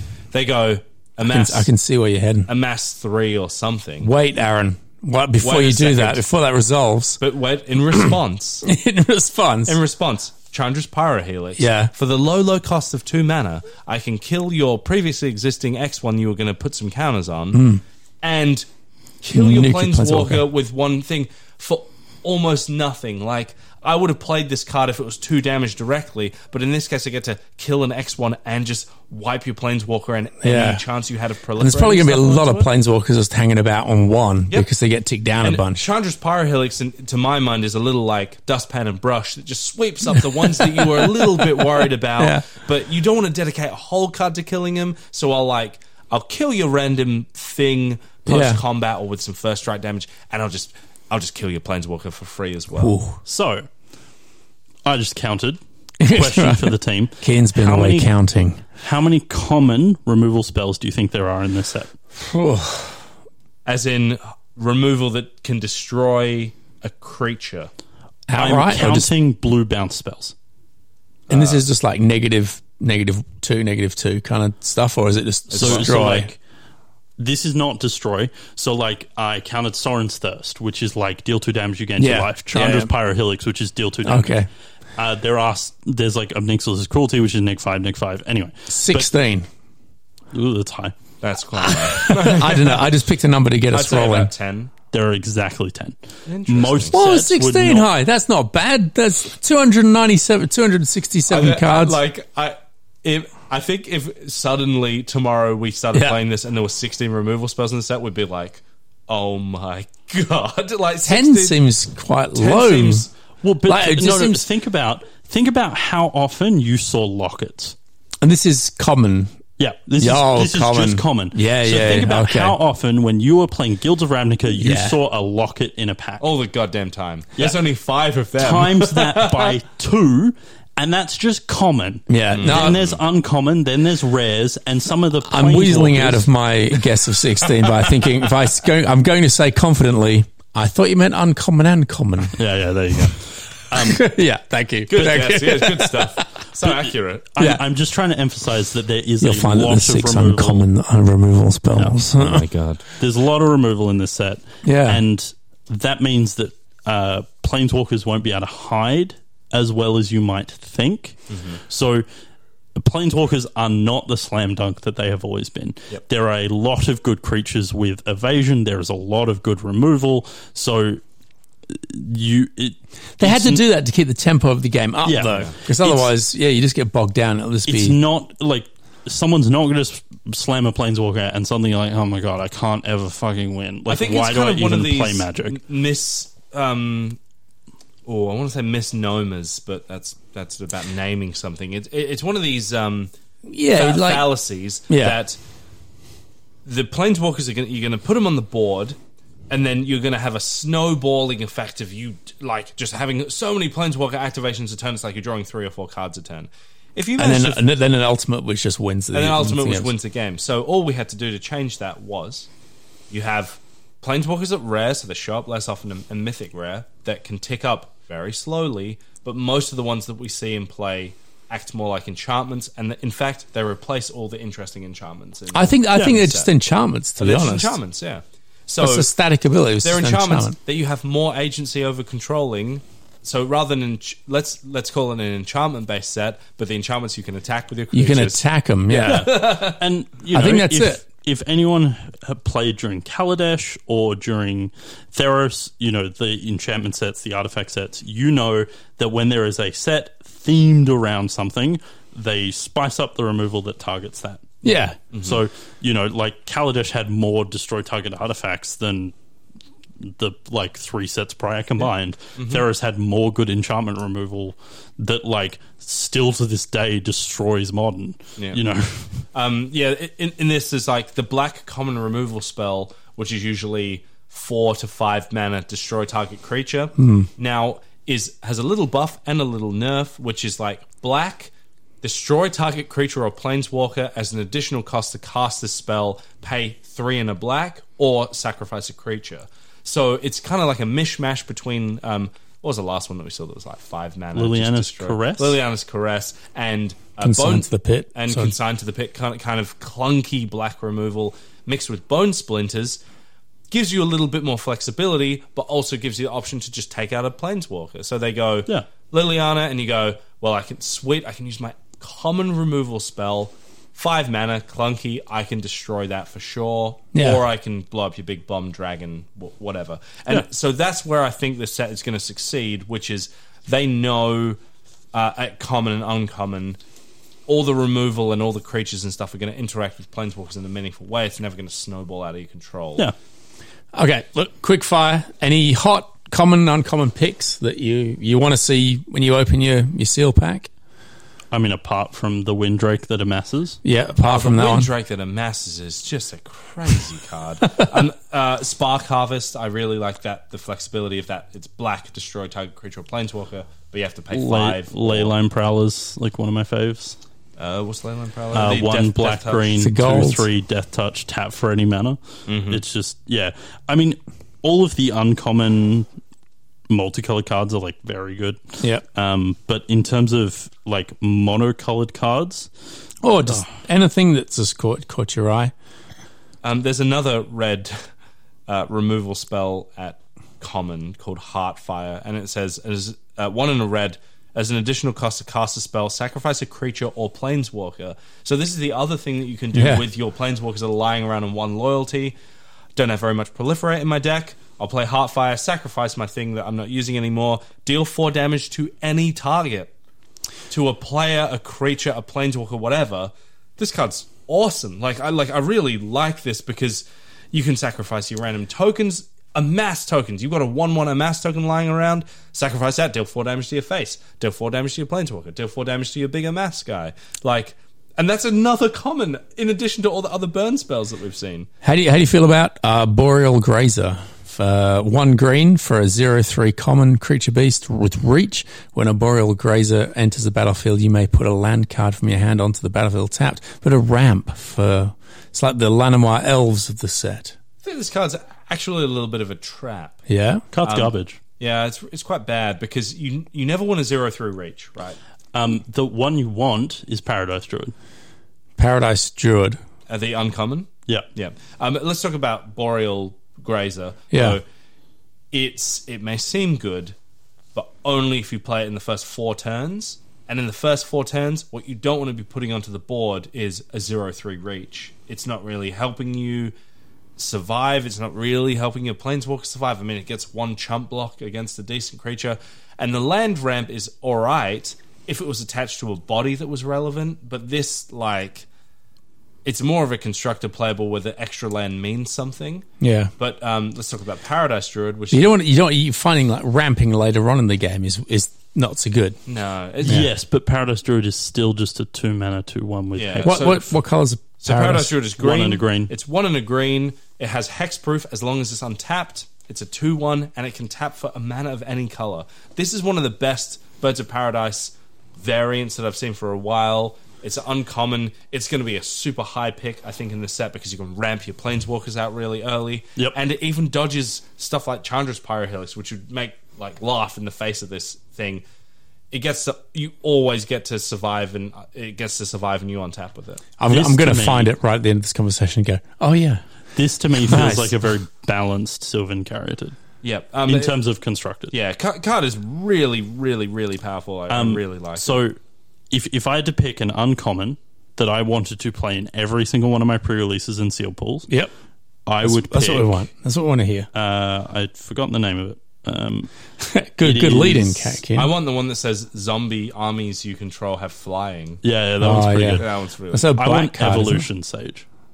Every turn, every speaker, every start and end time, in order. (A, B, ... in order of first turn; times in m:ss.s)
0:00.3-0:01.7 A
0:01.2-0:02.5 B
0:02.5-0:04.1 A
0:04.0-0:07.2 B
0:05.4-0:06.2 A
0:07.2-0:08.7 A
0:08.6-0:09.8 B
0:09.7-0:18.7 A
0:11.6-0:11.9 B
0:17.5-0:17.8 B
0:19.2-0:32.7 A
0:19.3-0:20.5 B
0:30.4-0:30.8 B
0:31.6-0:35.8 B
0:35.4-0:53.0 A
0:40.1-0:42.5 B
0:48.3-0:48.6 B
0:52.8-0:53.2 B
0:53.2-0:53.7 C
0:54.8-0:58.1 C
0:56.0-0:58.6 B
0:58.8-1:01.9 C
1:02.2-1:03.0 B
1:03.7-1:07.7 A
1:08.3-1:09.1 B
1:08.4-1:10.3 C
1:11.3-1:11.6 A
1:11.3-1:16.3 B
1:15.5-1:16.2 A
1:15.6-1:16.4 C
1:17.2-1:24.4 C
1:22.0-1:22.9 B
1:24.0-1:24.5 B
1:25.0-1:29.1 C
1:28.7-1:29.5 B
1:30.3-1:31.0 C
1:31.2-1:32.8 A
1:31.6-1:34.3 B
1:33.7-1:34.7 A
1:34.9-1:37.9 C
1:36.3-1:37.0 A
1:36.9-1:42.0 B
1:41.3-1:51.6 A
1:45.9-1:46.2 B
1:51.1-1:53.1 B
1:52.4-1:53.1 A
1:53.4-1:57.8 C
1:53.7-1:54.5 B
1:58.2-1:59.3 B
1:59.6-2:06.2 C
2:00.0-2:02.6 B
2:04.5-2:05.0 B
2:06.2-2:09.5 A
2:08.4-2:16.3 C
2:12.1-2:12.8 B
2:12.3-2:13.0 A
2:15.2-2:22.4 B
2:22.4-2:24.0 C
2:23.8-2:26.3 B
2:24.9-2:27.3 A
2:26.6-2:30.7 C
2:29.2-2:32.4 B
2:31.8-2:32.1 C
2:32.2-2:32.8 A
2:33.0-2:42.0 C
2:34.6-2:35.0 B
2:41.3-2:41.6 A
2:42.8-2:51.0 C
2:51.7-2:53.6 C
2:53.2-2:58.0 B
2:55.0-2:56.1 C
2:57.7-3:05.6 C
3:03.9-3:07.2 A
3:08.1-3:13.1 A
3:13.5-3:14.3 B
3:13.7-3:15.4 A
3:14.9-3:15.2 B
3:16.6-3:19.0 A
3:19.5-3:27.7 A
3:27.2-3:30.0 B
3:29.1-3:32.5 A
3:33.1-3:46.5 A
3:45.5-3:47.8 B
3:47.2-3:49.1 A
3:48.8-3:50.6 B
3:49.8-3:59.8 A
3:57.9-3:59.3 B
3:59.1-4:19.1 C
4:00.3-4:01.0 B
4:14.6-4:15.0 B
4:15.1-4:15.4 A
4:20.0-4:29.2 C
4:22.4-4:22.6 A
4:29.3-4:41.5 A
4:37.0-4:37.3 B
4:42.0-5:03.0 A
4:54.4-4:55.6 C
4:57.2-4:58.5 B
5:03.7-5:24.6 A
5:17.1-5:17.4 B
5:25.1-5:26.8 A
5:27.5-5:33.1 A
5:33.9-5:40.7 B
5:41.5-5:43.8 C
5:43.8-5:44.9 B
5:44.2-5:55.3 A
5:54.3-5:57.2 C
5:57.6-6:00.2 A
5:58.5-6:06.1 C
5:59.8-6:00.5 B
6:02.5-6:02.8 A
6:06.9-6:12.7 C
6:13.2-6:15.7 B
6:16.6-6:17.9 A
6:18.7-6:32.4 A
6:29.7-6:30.0 B
6:33.0-6:39.9 A
6:40.7-7:01.7 A
7:01.8-7:17.6 B
7:17.8-7:20.2 A
7:20.3-7:20.6 B
7:20.7-7:21.4 C
7:20.8-7:25.2 A
7:25.5-7:27.9 C
7:28.8-7:29.8 B
7:30.1-7:34.6 A
7:34.3-7:34.6 B
7:35.5-7:37.2 A
7:37.8-7:46.7 A
7:47.4-7:58.7 A
7:59.6-8:02.9 A
8:03.0-8:03.3 B
8:03.4-8:05.5 A
8:05.3-8:09.4 B
8:09.5-8:10.3 A
8:10.0-8:13.8 C
8:13.2-8:13.9 A
8:13.4-8:15.1 B
8:14.6-8:38.6 A
8:15.1-8:16.1 C
8:39.3-8:43.6 A
8:43.8-8:46.6 B
8:43.9-8:44.7 C
8:47.0-8:50.0 C
8:47.5-8:47.9 A
8:50.2-8:50.9 A
8:50.7-8:51.7 C
8:51.7-8:55.4 A
8:54.5-8:55.6 C
8:56.1-9:01.5 C
9:02.3-9:03.2 C
9:02.4-9:04.1 B
9:04.1-9:06.5 C
9:06.8-9:08.5 B
9:07.2-9:08.2 C
9:08.3-9:11.8 A
9:11.8-9:12.9 C
9:12.2-9:14.4 B
9:12.8-9:13.6 A
9:13.6-9:15.0 C